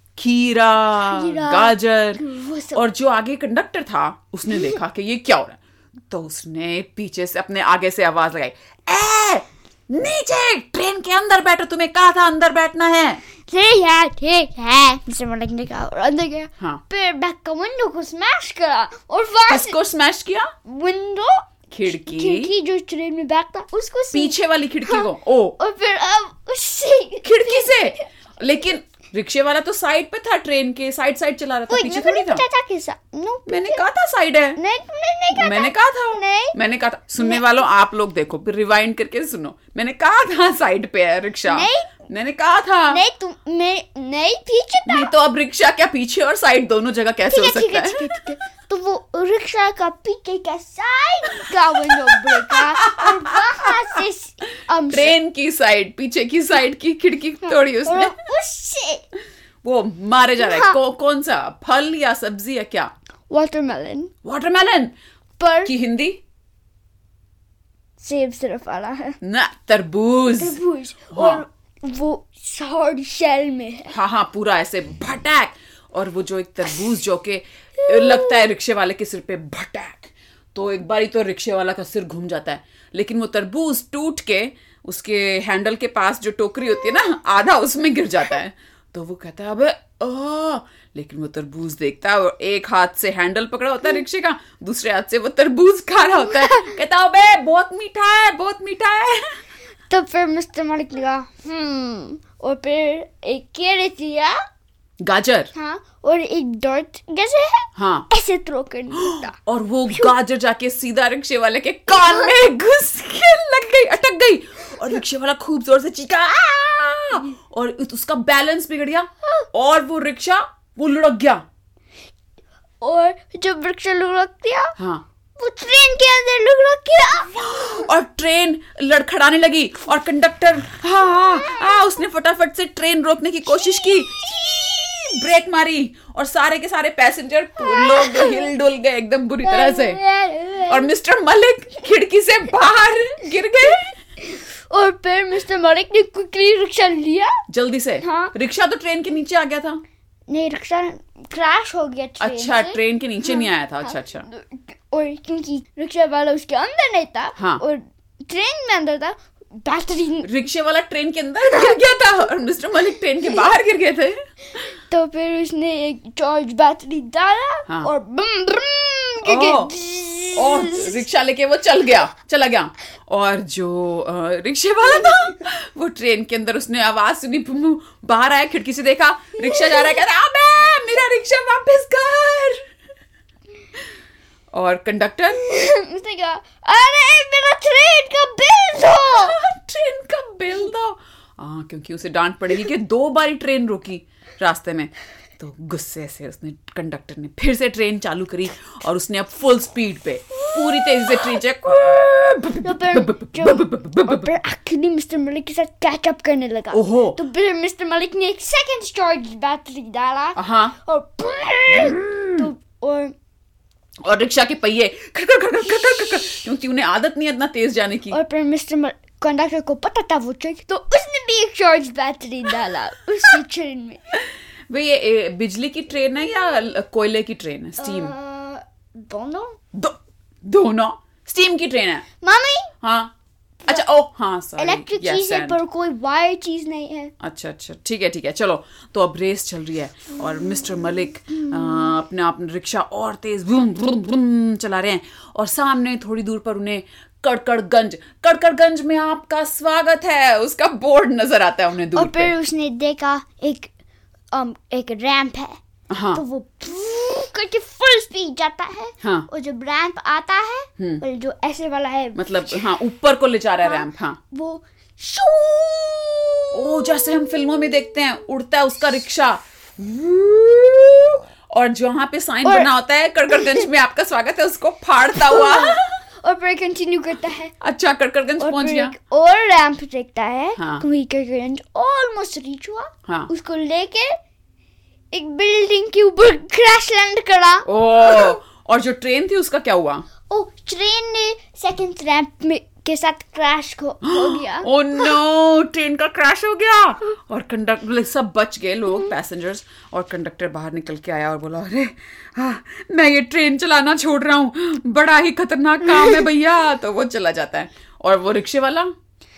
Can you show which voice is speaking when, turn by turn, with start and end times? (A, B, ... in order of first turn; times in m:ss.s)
0:00.2-0:13.2 A
0:01.0-0:02.8 B
0:13.5-0:19.8 B
0:19.5-0:20.5 A
0:20.7-0:28.1 B
0:21.7-0:22.5 A
0:24.1-0:25.6 A
0:27.2-0:32.4 A
0:31.7-0:33.8 B
0:33.5-0:34.6 A
0:34.6-0:36.6 B
0:35.3-0:43.0 A
0:41.5-0:41.9 B
0:42.9-0:45.1 B
0:44.9-0:48.1 A
0:47.3-0:55.2 B
0:52.3-0:53.7 A
0:54.9-0:58.2 A
0:57.4-0:59.0 B
0:59.6-1:02.9 A
1:00.4-1:00.8 B
1:03.3-1:04.1 B
1:04.2-1:05.0 A
1:05.4-1:05.7 B
1:05.6-1:06.2 A
1:08.0-1:09.2 B
1:09.2-1:10.6 A
1:10.4-1:13.9 B
1:11.1-1:11.4 A
1:13.9-1:39.4 A
1:36.2-1:36.7 B
1:39.9-1:44.4 B
1:45.0-1:45.5 A
1:45.5-1:49.3 B
1:47.8-1:48.1 A
1:48.9-2:01.4 A
1:51.9-1:52.3 B
2:02.8-2:04.8 B
2:04.8-2:05.0 A
2:05.4-2:07.4 B
2:07.4-2:20.0 A
2:17.6-2:18.5 B
2:19.4-2:20.9 B
2:20.7-2:24.0 A
2:24.2-2:27.4 B
2:27.5-2:29.8 A
2:28.0-2:28.3 B
2:30.3-2:40.3 B
2:32.2-2:34.3 A
2:37.4-2:37.6 A
2:40.2-2:44.2 A
2:44.9-2:51.0 B
2:49.2-2:49.8 A
2:50.4-3:02.6 A
2:59.6-2:59.8 B
3:04.5-3:05.4 A
3:05.4-3:09.4 B
3:09.0-3:24.3 A
3:20.5-3:21.2 B
3:22.6-3:33.1 B
3:26.7-3:27.2 A
3:30.4-3:30.8 A
3:31.7-3:32.5 A
3:34.0-3:38.2 A
3:38.1-3:44.0 B
3:44.7-3:48.1 A
3:47.8-3:49.6 B
3:49.7-3:52.0 A
3:52.2-3:52.7 B
3:52.8-3:53.1 A
3:53.7-3:55.6 A
3:54.6-3:57.1 B
3:57.2-4:12.3 A
4:12.0-4:13.7 B
4:14.3-4:15.6 B
4:15.9-4:16.2 A
4:16.1-4:22.6 B
4:19.0-4:19.3 A
4:22.2-4:24.2 A
4:23.6-4:26.8 B
4:26.5-4:36.0 A
4:32.4-4:32.7 B
4:33.3-4:33.7 B
4:35.2-4:37.5 B
4:37.6-4:39.0 A
4:38.4-4:44.2 B
4:40.6-4:40.8 A
4:45.1-4:48.4 B
4:47.6-4:50.1 A
4:50.3-4:54.7 B
4:54.0-5:08.9 A
5:05.9-5:06.2 B